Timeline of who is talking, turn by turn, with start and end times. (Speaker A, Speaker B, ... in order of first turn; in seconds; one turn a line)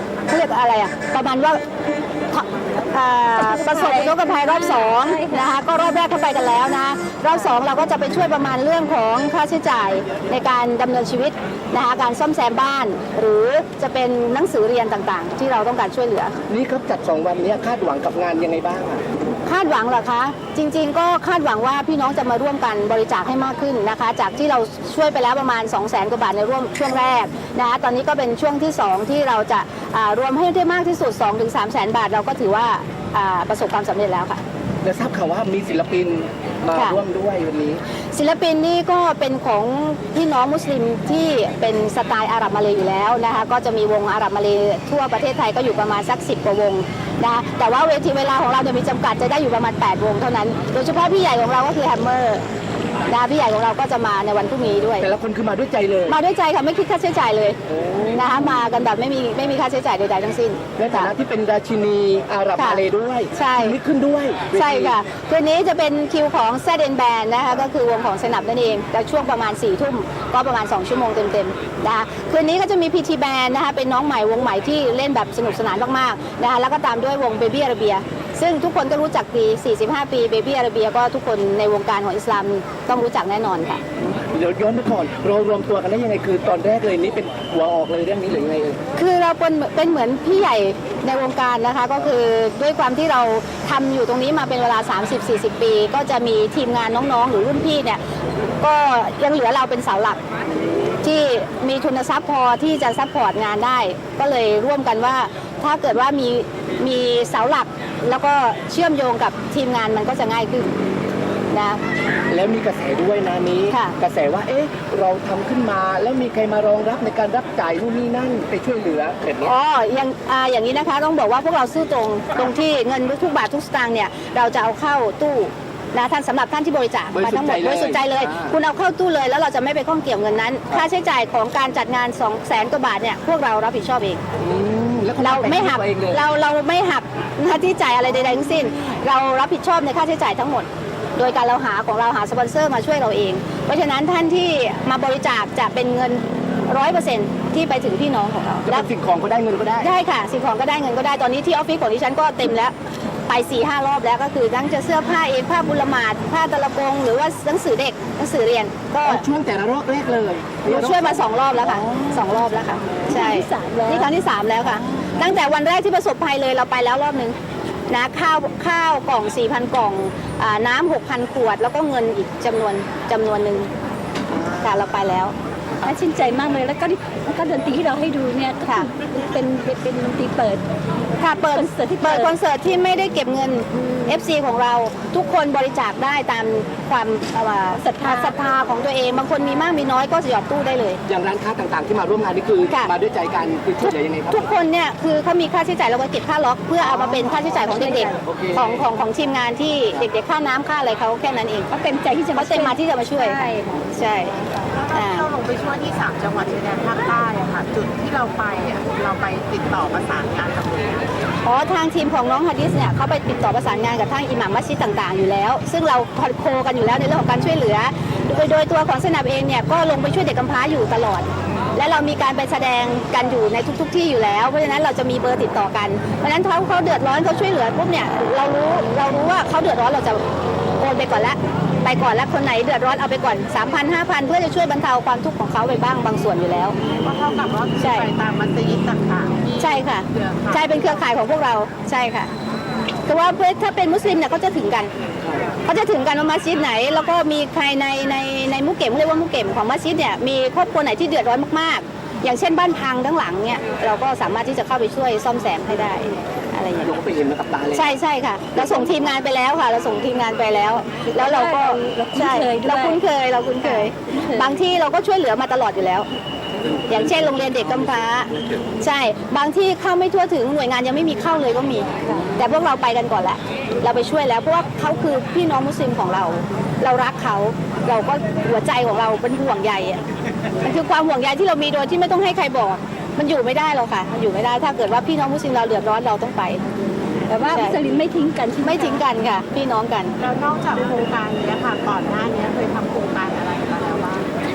Speaker A: 0.3-1.6
Speaker A: 2.3-16.4
Speaker B: 3.4-5.5
Speaker C: 16.5-19.0
Speaker A: 19.5-34.4
Speaker C: 34.8-37.8
Speaker A: 38.1-52.4
Speaker A: 53.1-55.1
Speaker C: 55.0-56.1
Speaker A: 56.1-57.6
Speaker C: 57.7-58.2
Speaker A: 58.1-61.1
Speaker C: 60.8-65.0
Speaker A: 63.3-63.8
Speaker A: 64.5-83.8
Speaker C: 84.2-88.8
Speaker A: 89.0-98.0
Speaker A: 98.6-100.2
Speaker A: 101.0-110.7
Speaker A: 111.5-111.8
Speaker C: 112.3-119.5
Speaker A: 119.4-134.2
Speaker C: 127.1-128.5
Speaker C: 134.4-136.2
Speaker A: 135.2-148.9
Speaker C: 148.7-149.9
Speaker A: 149.8-152.7
Speaker A: 153.3-159.2
Speaker C: 159.0-162.1
Speaker A: 160.7-167.3
Speaker B: 163.1-164.1
Speaker A: 167.9-173.7
Speaker A: 174.6-175.3
Speaker B: 175.8-180.6
Speaker A: 181.2-191.0
Speaker B: 181.5-182.4
Speaker B: 187.8-188.3
Speaker C: 191.1-194.4
Speaker A: 193.8-201.7
Speaker C: 196.8-198.8
Speaker B: 201.7-203.8
Speaker A: 202.4-204.4
Speaker D: 204.9-211.1
Speaker A: 204.9-205.3
Speaker A: 211.4-230.2
Speaker A: 230.8-236.8
Speaker D: 237.0-241.0
Speaker A: 237.8-238.1
Speaker A: 239.6-242.3
Speaker A: 243.1-244.9
Speaker A: 245.7-257.0
Speaker C: 256.8-257.9
Speaker A: 257.7-266.1
Speaker B: 261.1-263.0
Speaker B: 263.6-264.6
Speaker A: 266.9-280.0
Speaker A: 280.6-286.6
Speaker B: 287.3-289.0
Speaker A: 287.5-287.8
Speaker A: 288.6-290.1
Speaker D: 290.2-294.3